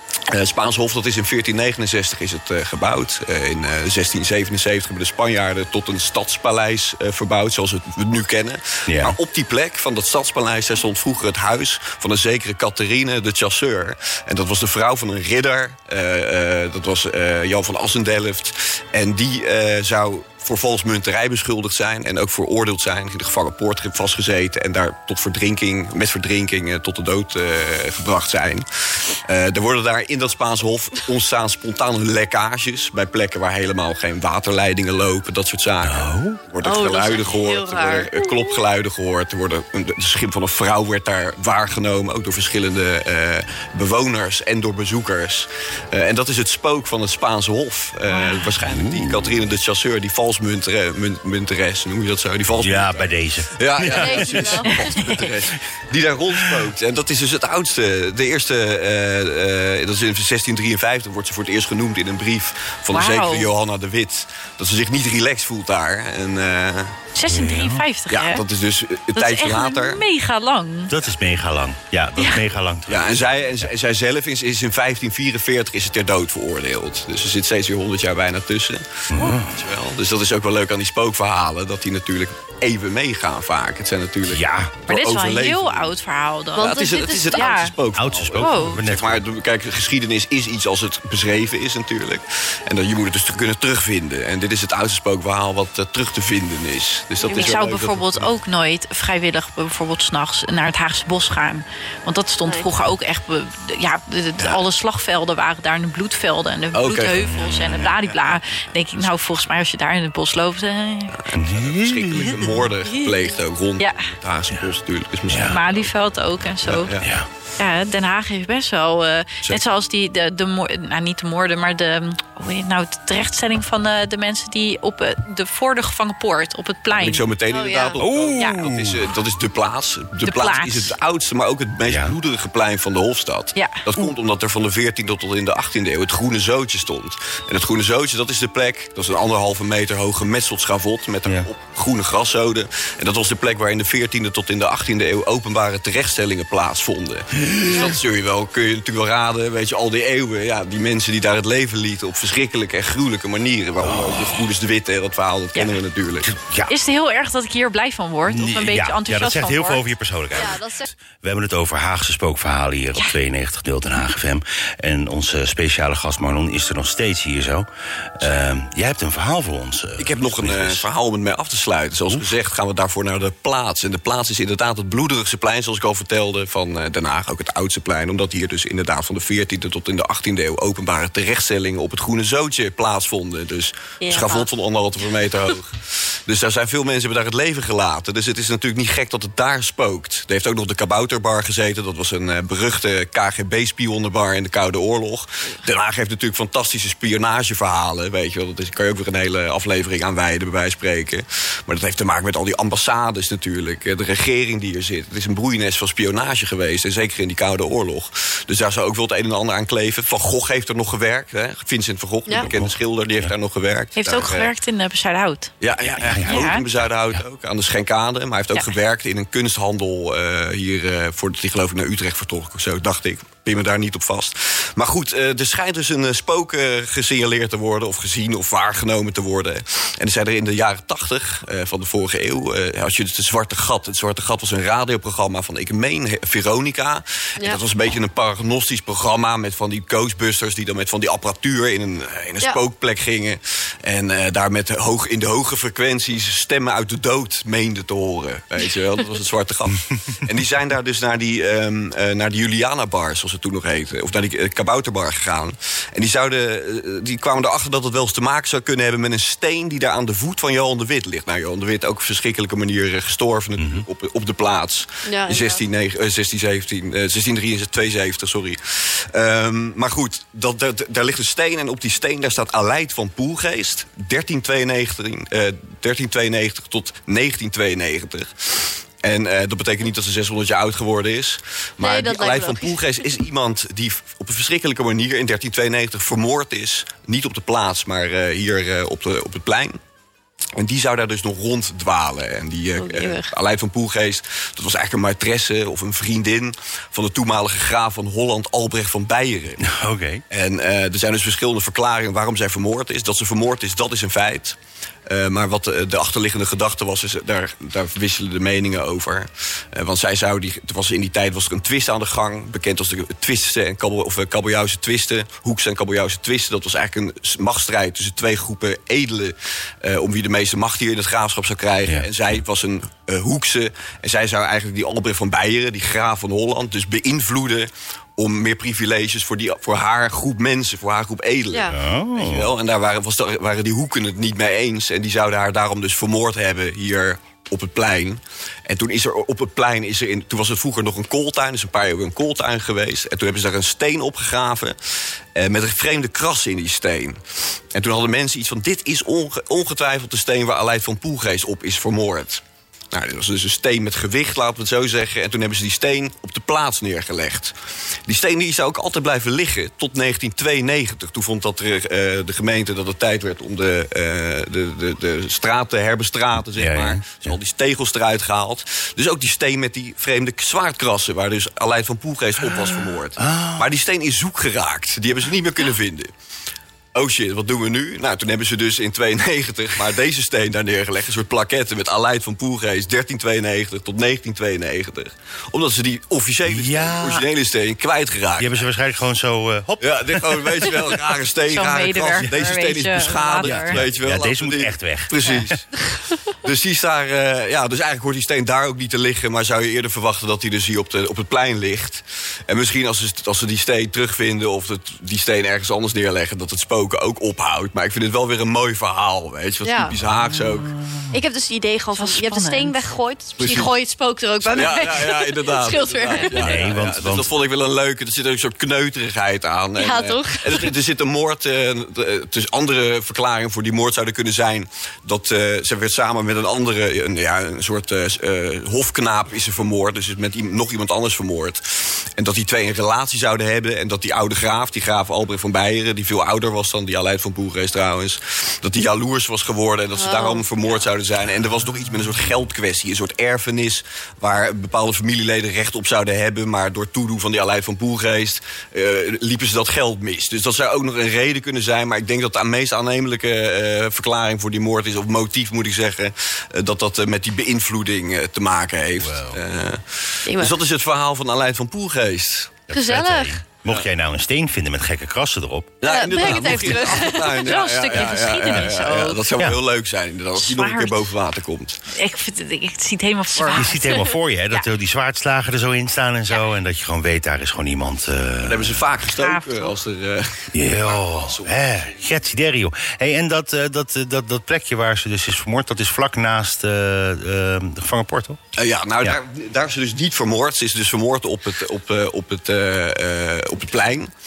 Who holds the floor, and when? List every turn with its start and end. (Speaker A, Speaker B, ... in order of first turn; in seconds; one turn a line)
Speaker A: 0.3-67.0
Speaker B: 8.9-9.2
Speaker B: 35.8-36.4
Speaker C: 36.6-38.6
Speaker B: 48.6-49.4
Speaker B: 52.6-55.6
Speaker C: 54.0-55.0
Speaker D: 55.0-55.3
Speaker B: 56.4-56.6
Speaker D: 62.9-63.5
Speaker D: 67.2-68.4
Speaker B: 67.3-67.8
Speaker A: 68.1-70.0
Speaker D: 69.2-70.9
Speaker B: 70.9-73.7
Speaker D: 72.2-72.4
Speaker A: 72.9-86.0
Speaker B: 79.1-79.6
Speaker B: 84.3-84.7
Speaker D: 84.9-87.8
Speaker C: 86.5-87.5
Speaker A: 86.6-98.3
Speaker B: 88.0-89.2
Speaker D: 88.4-88.8
Speaker D: 97.2-111.2
Speaker A: 106.7-107.3
Speaker B: 107.2-108.0
Speaker A: 107.8-109.1
Speaker A: 111.1-115.9
Speaker B: 111.3-112.5
Speaker D: 113.8-114.1
Speaker B: 115.3-115.6
Speaker D: 115.5-117.0
Speaker A: 116.7-117.1
Speaker B: 116.9-117.3
Speaker D: 117.6-127.3
Speaker A: 126.9-156.3
Speaker C: 127.5-128.0
Speaker B: 128.0-129.1
Speaker D: 128.4-128.6
Speaker D: 130.2-130.9
Speaker B: 131.9-132.2
Speaker D: 133.6-133.8
Speaker B: 147.4-147.9
Speaker B: 153.8-154.4
Speaker B: 156.2-156.7
Speaker D: 156.7-159.8
Speaker B: 158.3-170.8
Speaker C: 160.3-160.8
Speaker A: 170.0-214.5
Speaker C: 184.0-184.5
Speaker B: 212.3-213.3
Speaker D: 214.0-215.5
Speaker A: 215.6-289.8
Speaker B: 215.8-216.5
Speaker D: 216.1-216.6
Speaker B: 263.6-263.9
Speaker C: 265.1-265.6
Speaker C: 281.8-282.8
Speaker A: 290.6-299.7
Speaker C: 292.8-293.3
Speaker B: 299.6-300.2
Speaker A: 300.3-344.8
Speaker B: 331.7-332.5
Speaker A: 345.4-347.2
Speaker A: 347.7-357.6
Speaker A: 358.1-376.1
Speaker B: 366.6-367.4
Speaker B: 373.2-373.7
Speaker A: 376.9-388.6
Speaker B: 386.5-387.3
Speaker B: 388.4-390.9
Speaker A: 389.8-410.8
Speaker D: 391.5-393.8
Speaker B: 393.4-395.6
Speaker C: 409.6-409.9
Speaker C: 411.1-416.7
Speaker D: 411.9-412.8
Speaker A: 413.4-413.7
Speaker A: 414.4-462.6
Speaker B: 416.3-417.3
Speaker C: 419.8-420.7
Speaker C: 439.9-440.4
Speaker B: 459.0-459.4
Speaker C: 460.3-460.5
Speaker B: 462.7-466.8
Speaker C: 462.7-463.4
Speaker A: 465.8-471.8
Speaker C: 465.8-467.5
Speaker D: 467.4-469.2
Speaker B: 468.5-469.6
Speaker D: 470.4-471.1
Speaker D: 471.9-474.7
Speaker B: 473.5-478.8
Speaker A: 478.4-481.9
Speaker D: 479.2-479.7
Speaker B: 480.5-488.4
Speaker A: 488.6-494.1